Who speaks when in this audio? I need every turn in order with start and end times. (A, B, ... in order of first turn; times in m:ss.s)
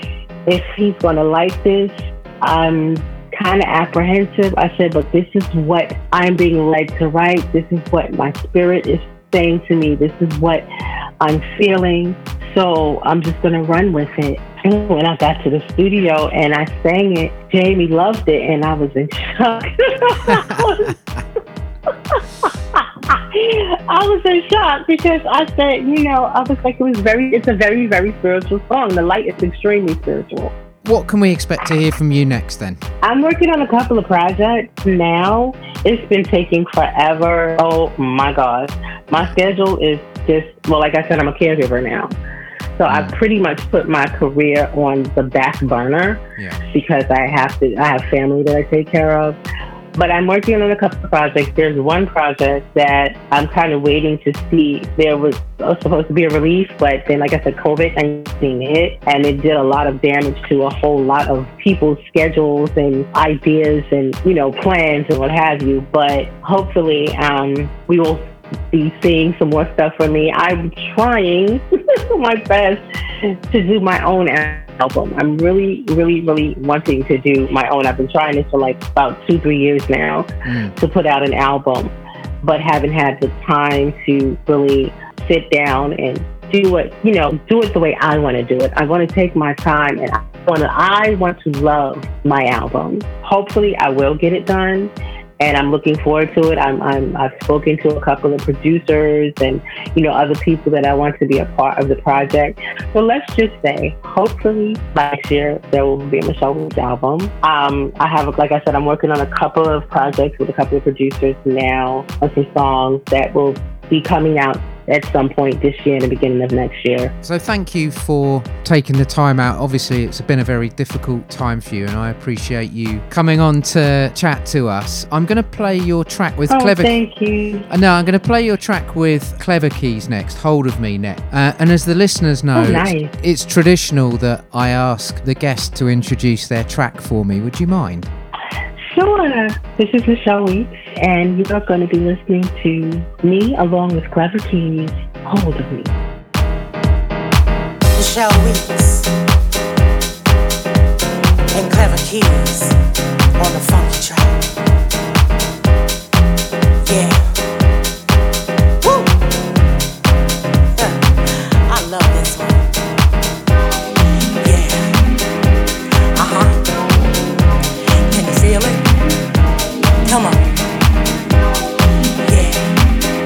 0:00.5-0:10.6 A
0:11.2-0:20.9 A
0:22.7-0:30.5 A
0:30.8-0:32.8 B
0:33.0-0:42.1 A
0:42.8-0:49.4 A
0:49.9-1:11.6 A
1:12.1-1:12.8 A
1:13.5-1:57.1 A
1:20.4-1:20.7 B
1:57.2-2:07.0 B
2:06.5-2:07.6 A
2:07.7-2:18.1 B
2:12.5-2:13.1 A
2:18.9-2:25.9 A
2:28.0-2:29.1 C
2:31.5-2:32.7 C
2:33.4-2:34.4 C
2:36.8-2:37.3 C
2:38.8-2:39.1 C
2:40.8-2:42.6 C
2:44.4-2:44.9 C
2:46.1-2:46.6 C
2:48.1-2:48.8 C
2:50.0-2:50.4 C
2:52.3-2:52.6 C